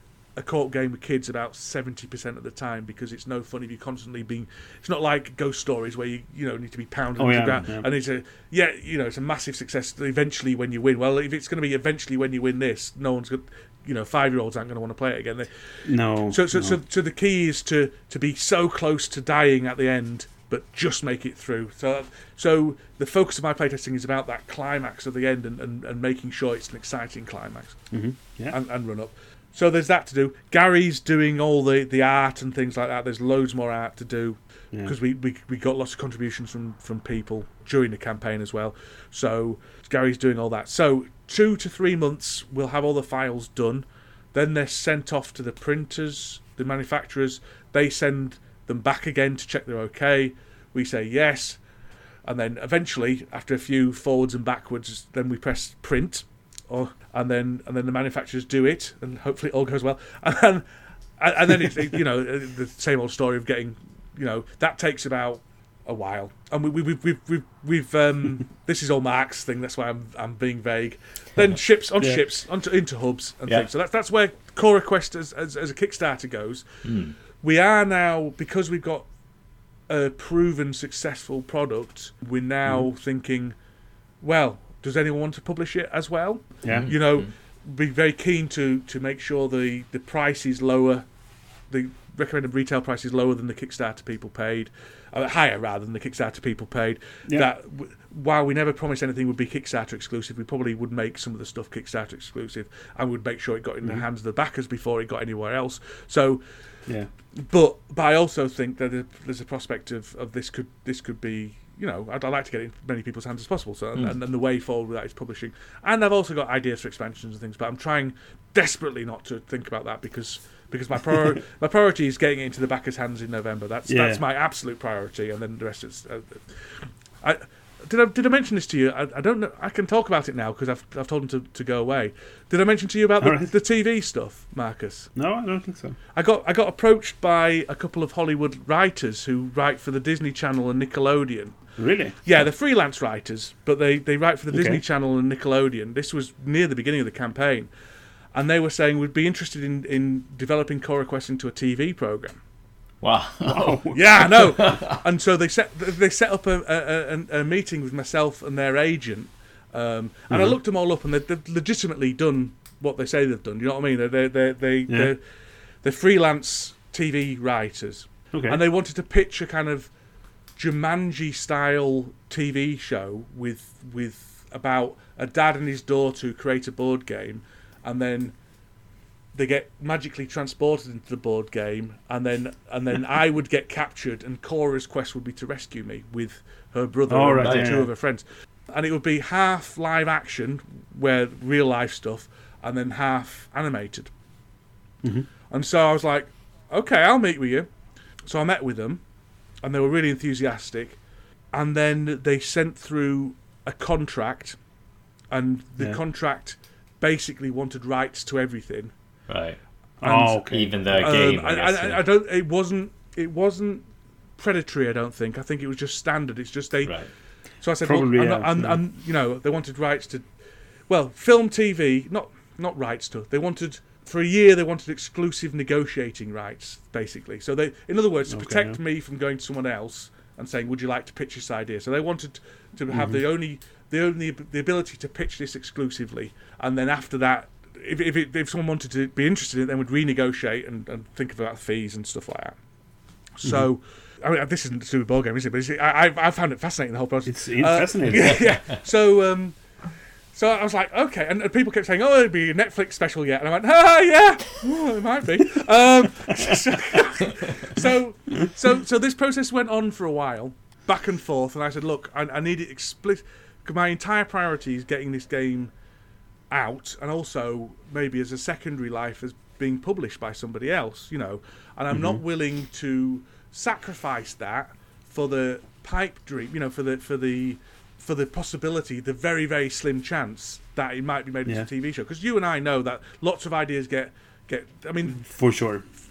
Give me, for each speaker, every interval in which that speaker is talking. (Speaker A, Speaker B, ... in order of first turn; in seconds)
Speaker A: 0.3-51.6, 52.2-60.6, 61.2-79.1, 79.9-83.5, 84.2-91.0, 91.7-106.6, 107.3-135.1, 136.1-141.7, 142.2-147.7, 148.3-152.4, 153.9-165.3, 165.8-169.9, 170.5-178.3, 179.3-194.1, 195.5-197.7, 198.2-199.0, 199.6-201.0, 201.5-204.6, 205.3-208.9, 210.0-217.1, 217.6-220.2, 220.9-242.6, 243.3-249.6, 250.3-265.7, 266.5-285.2
Speaker B: 7.2-7.8, 15.8-16.8, 27.9-28.6, 86.6-86.9, 123.9-124.2, 133.2-133.5, 135.1-136.0, 141.8-142.2, 144.5-144.8, 153.4-154.0, 160.3-160.6, 168.3-168.6, 187.1-187.9, 195.0-195.3, 210.0-210.7, 217.8-218.8, 228.3-228.8, 232.9-233.2, 247.2-248.5, 271.9-272.2, 285.1-285.9
Speaker C: 76.8-77.1, 86.7-87.3, 153.0-154.9, 187.4-187.8, 209.3-209.6, 210.3-212.0